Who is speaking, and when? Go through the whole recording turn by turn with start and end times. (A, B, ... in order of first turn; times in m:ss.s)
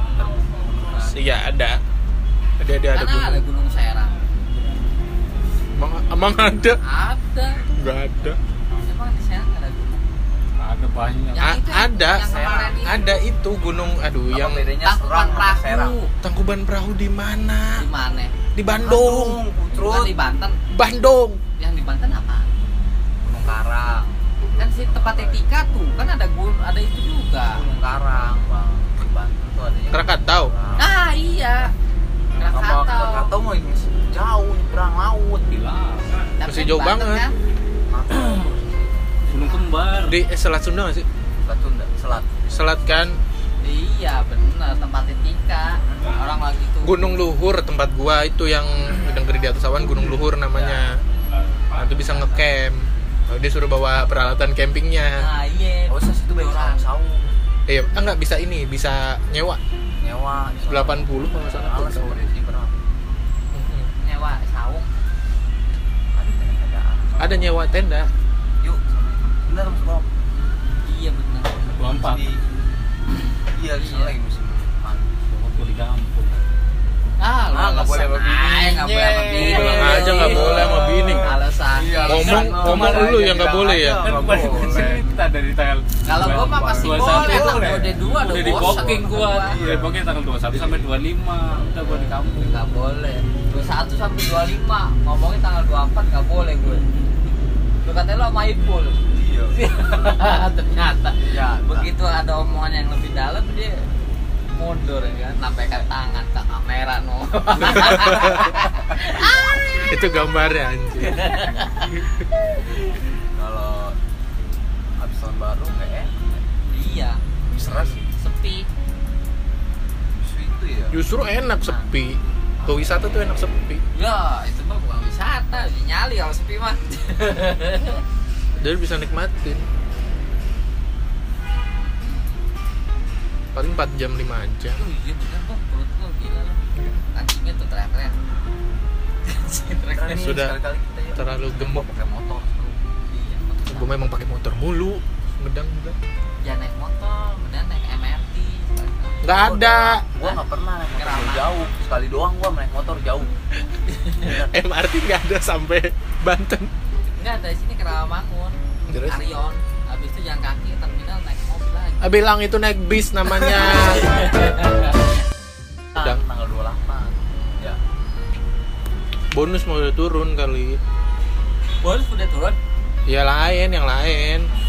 0:00.3-0:01.2 A
0:01.0-0:01.8 B
0:02.6-0:03.4 B
0:02.9-0:04.2 C
0:05.8-0:06.8 B
0:06.8-0:07.6 C
0:07.7-0:08.4 B
0:08.8-0:10.1 C
0:10.6-0:11.5 D
0:11.3-0:13.0 C
0:11.4-0:14.6 B
0:12.2-0:12.8 A
0:14.3-0:16.0 A
0:14.8-0:16.1 C
0:16.2-0:17.8 B
0:17.8-0:18.4 C
0:18.6-0:19.4 B
0:18.8-0:20.2 A
0:19.7-0:20.6 C
0:20.7-0:21.4 B
0:21.6-0:22.5 C
0:23.2-0:25.4 A
0:24.6-0:27.6 C
0:27.5-0:30.9 A
0:29.9-0:30.5 B
0:30.8-0:31.7 C
0:32.4-0:33.3 C
0:32.4-0:35.6 A
0:35.5-0:36.1 D
0:36.4-0:37.3 C
0:36.4-0:37.2 B
0:37.9-0:39.5 A
0:38.1-0:38.5 D
0:39.2-0:40.2 D
0:40.0-0:41.1 B
0:41.4-0:43.1 A
0:42.5-0:43.2 B
0:43.6-0:47.0 C
0:46.8-0:51.0 B
0:50.5-0:51.0 A
0:51.8-0:55.3 B
0:55.2-0:56.9 C
0:55.9-0:57.3 A
0:57.7-0:59.6 B
1:00.0-1:02.8 A
1:00.7-1:02.2 B
1:03.5-1:03.9 B
1:04.0-1:04.9 C
1:06.1-1:07.5 A
1:07.2-1:08.1 B
1:08.6-1:10.1 A
1:10.7-1:11.9 C
1:11.8-1:12.2 D
1:11.9-1:12.4 A
1:13.5-1:15.1 A
1:13.7-1:14.2 C
1:15.3-1:16.4 D
1:17.2-1:23.2 C
1:17.5-1:25.0 A
1:19.4-1:21.3 B
1:22.0-1:24.1 B
1:22.7-1:23.2 D
1:23.9-1:32.6 D
1:26.0-1:29.6 C
1:26.2-1:30.0 A
1:30.5-1:30.9 A
1:32.3-1:36.8 C
1:37.8-1:39.0 C
1:39.1-1:40.1 A
1:39.5-1:43.9 C
1:41.2-1:41.9 A
1:44.5-1:49.6 C
1:49.7-1:51.5 B
1:51.0-1:51.9 C
1:53.3-1:54.0 A
1:55.0-1:56.4 A
1:56.7-1:57.2 C
1:57.6-1:58.0 B
1:57.6-1:58.0 A
1:58.1-1:58.7 C
2:00.2-2:01.0 A
2:00.9-2:03.8 B
2:02.6-2:03.0 A
2:03.9-2:08.0 C
2:08.6-2:09.6 B
2:13.5-2:14.8 B
2:14.8-2:18.2 C
2:16.8-2:17.0 B
2:19.2-2:20.3 C
2:19.9-2:22.8 A
2:20.2-2:20.5 B
2:21.2-2:21.8 B
2:23.1-2:24.0 C
2:23.7-2:26.0 B
2:26.4-2:29.2 C
2:29.2-2:30.1 B
2:29.3-2:33.3 A
2:31.0-2:31.6 C
2:34.1-2:36.7 B
2:34.2-2:34.5 A
2:37.1-2:42.1 C
2:38.9-2:39.2 B
2:42.0-2:44.2 B
2:43.8-2:44.9 C
2:46.0-2:47.8 A
2:46.0-2:46.2 B
2:49.3-2:50.8 B
2:51.8-2:52.6 C
2:53.1-2:54.5 B